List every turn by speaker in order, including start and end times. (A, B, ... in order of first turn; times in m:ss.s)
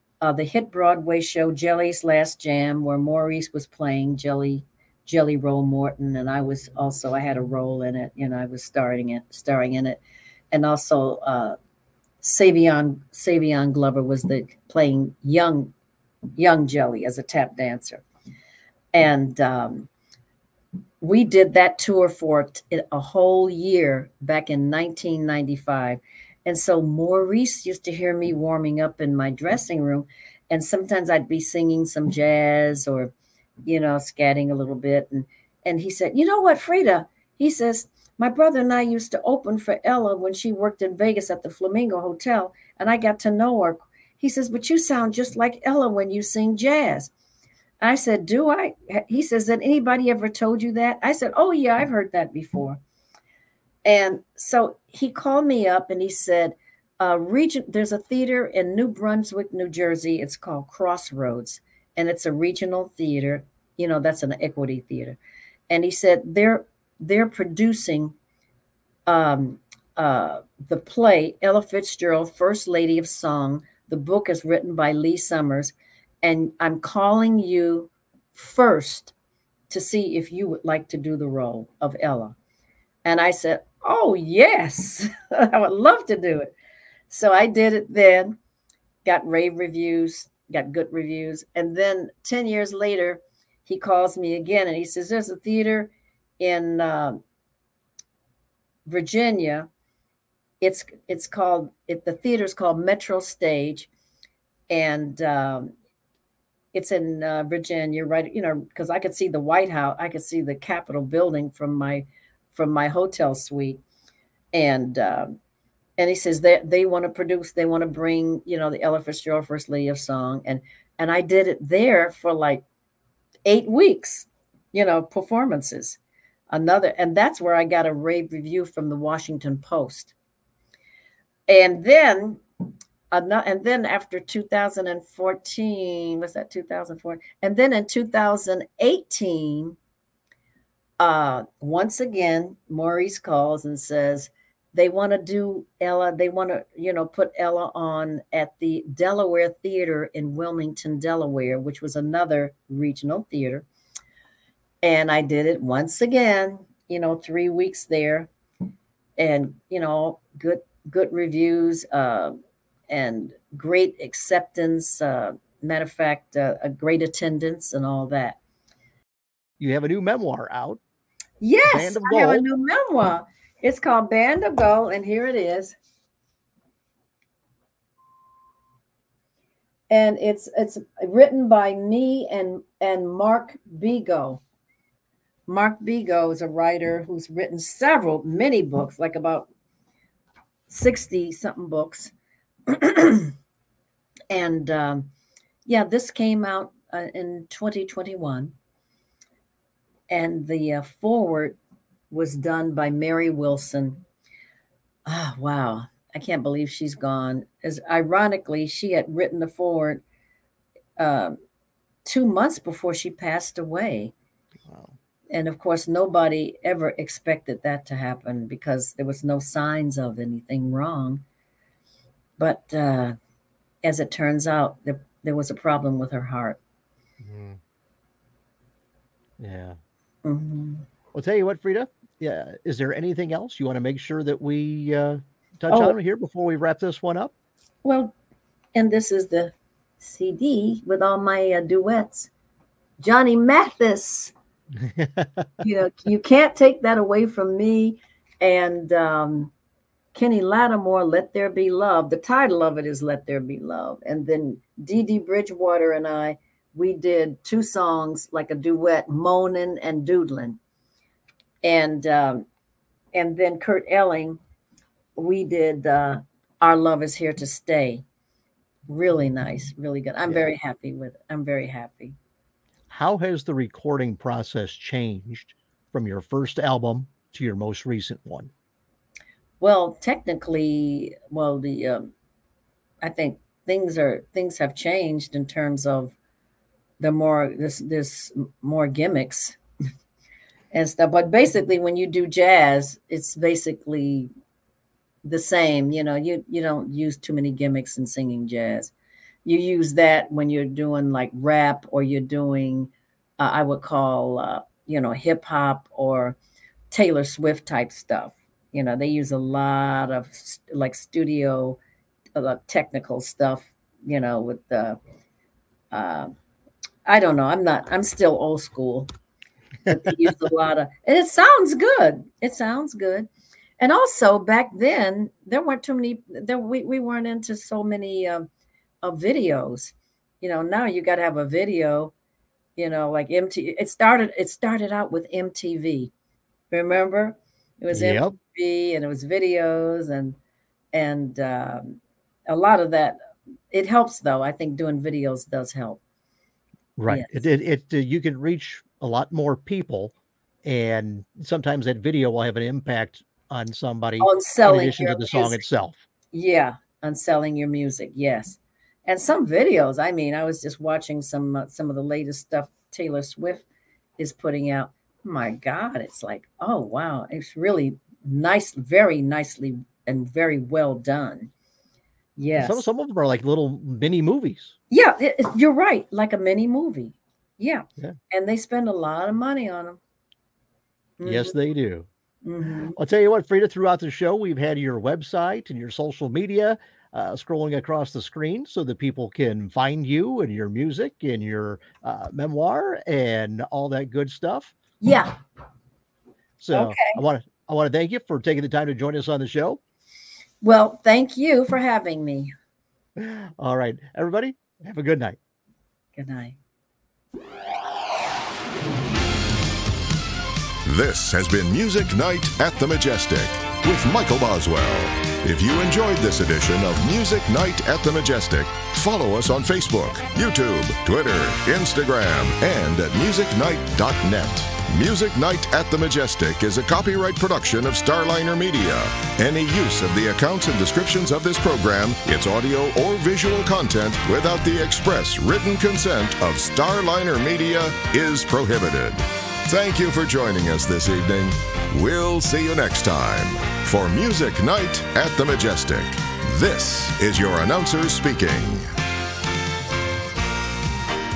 0:00.2-0:10.0 A
0:10.5-0:11.6 A
0:12.2-0:15.7 A
0:16.4-0:18.0 A
0:18.9-0:19.9 A
0:21.0-0:33.1 A
0:33.6-0:47.1 A
0:47.8-0:52.8 A
0:53.8-1:05.2 A
1:05.7-1:08.1 A
1:09.1-1:19.1 A
1:19.7-1:22.3 A
1:23.0-1:26.5 A
1:27.1-1:28.4 A
1:29.0-1:37.2 A
1:38.8-1:39.7 A
1:40.6-1:43.9 A
1:44.7-1:45.7 A
1:46.7-1:53.8 A
1:54.5-1:55.4 A
1:56.0-2:02.6 A
2:03.4-2:06.0 A
2:06.5-2:10.1 A
2:11.5-2:12.4 A
2:13.1-2:19.8 A
2:21.0-2:33.6 A
2:34.8-2:38.3 A
2:39.2-2:42.3 A
2:42.9-2:48.4 A
2:49.6-2:50.8 B
2:51.4-2:55.8 A
2:51.7-2:52.4 B
2:59.9-3:04.4 A
3:05.5-3:09.5 A
3:10.7-3:12.1 A
3:12.7-3:13.3 A
3:14.3-3:15.1 A
3:15.7-3:18.5 A
3:20.1-3:21.6 A
3:22.1-3:24.0 A
3:25.1-3:30.0 A
3:31.0-3:31.4 A
3:32.0-3:34.1 A
3:34.6-3:34.9 B
3:35.3-3:41.2 A
3:42.4-3:43.2 A
3:43.8-3:46.6 A
3:47.2-3:47.6 B
3:49.4-3:49.8 B
3:50.2-3:50.8 A
3:51.1-3:57.3 B
3:55.7-3:55.9 A
3:57.8-3:58.1 A
3:58.7-4:02.3 A
4:03.0-4:04.3 A
4:04.8-4:05.5 B
4:05.6-4:09.5 A
4:10.1-4:20.6 A
4:21.6-4:22.4 A
4:23.1-4:24.4 A
4:25.2-4:28.0 A
4:28.9-4:32.2 A
4:32.9-4:38.5 B
4:39.6-4:42.1 A
4:43.0-4:46.2 A
4:47.0-4:49.6 A
4:50.7-4:54.3 A
4:55.2-4:58.9 A
4:59.4-5:06.4 A
5:06.9-5:11.8 A
5:12.3-5:15.0 A
5:15.9-5:16.3 A
5:17.0-5:19.1 A
5:19.8-5:23.3 A
5:23.8-5:28.5 A
5:29.0-5:32.1 A
5:32.8-5:36.1 A
5:36.7-5:40.4 A
5:37.9-5:38.4 B
5:40.9-5:43.2 A
5:43.7-5:46.0 A
5:47.0-5:56.0 B
5:47.1-5:47.4 A
5:54.2-5:55.6 A
5:56.3-6:03.6 A
6:04.2-6:11.5 A
6:12.4-6:12.8 A
6:12.6-6:14.7 B
6:14.9-6:20.0 A
6:21.2-6:21.6 A
6:21.2-6:22.1 B
6:22.4-6:23.0 A
6:23.0-6:34.7 B
6:35.0-6:35.4 A
6:36.6-6:39.8 B
6:36.7-6:37.2 A
6:40.6-6:42.5 A
6:43.2-6:45.4 B
6:46.2-6:46.6 A
6:50.8-7:28.9 C